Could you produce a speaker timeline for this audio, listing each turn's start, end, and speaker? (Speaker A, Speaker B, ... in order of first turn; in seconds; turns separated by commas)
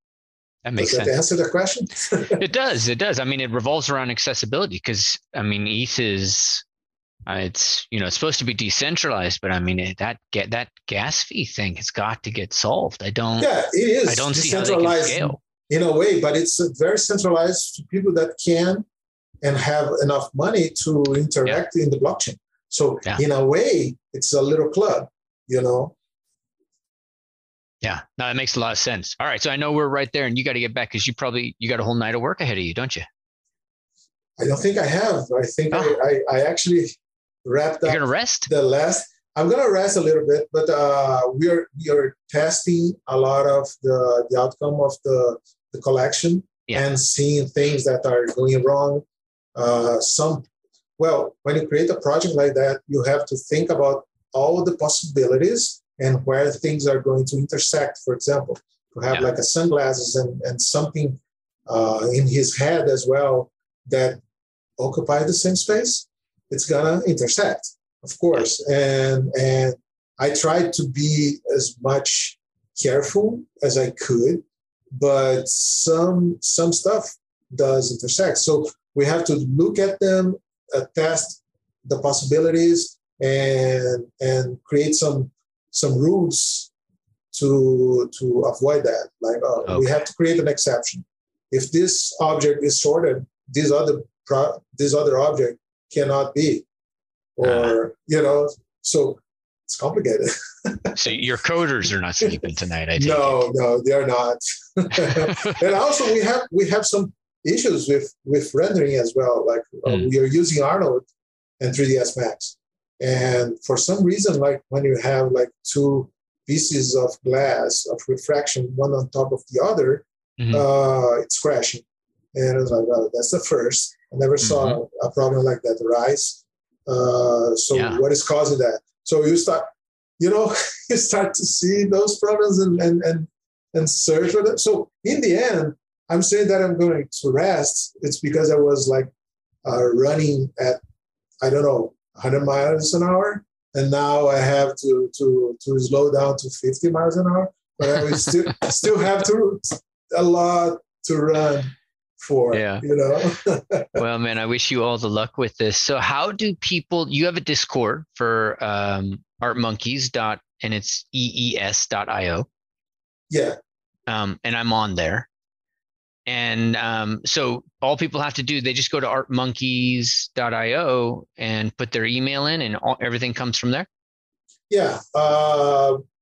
Speaker A: 0.6-1.1, Speaker B: 0.8-2.4, Speaker A: 2.2-6.6, Speaker A: 7.3-13.5, Speaker B: 13.4-18.8, Speaker A: 14.1-15.4, Speaker B: 19.4-25.9, Speaker A: 27.8-33.1, Speaker B: 34.4-50.5, Speaker A: 35.7-36.0, Speaker A: 37.9-38.5, Speaker B: 51.0-64.2, Speaker B: 64.8-86.7, Speaker B: 87.3-96.7, Speaker A: 89.6-89.9, Speaker B: 97.4-101.0, Speaker A: 97.4-97.7, Speaker A: 100.9-103.5, Speaker B: 103.0-111.0, Speaker A: 105.1-105.6, Speaker B: 111.6-129.7, Speaker A: 120.4-120.6, Speaker A: 124.4-124.8, Speaker A: 127.7-128.0, Speaker B: 130.2-139.1, Speaker B: 139.6-140.8, Speaker B: 141.4-154.0, Speaker A: 152.5-152.8, Speaker A: 153.9-162.5, Speaker B: 163.3-163.6, Speaker A: 164.1-165.3, Speaker A: 166.3-173.9, Speaker B: 174.7-176.0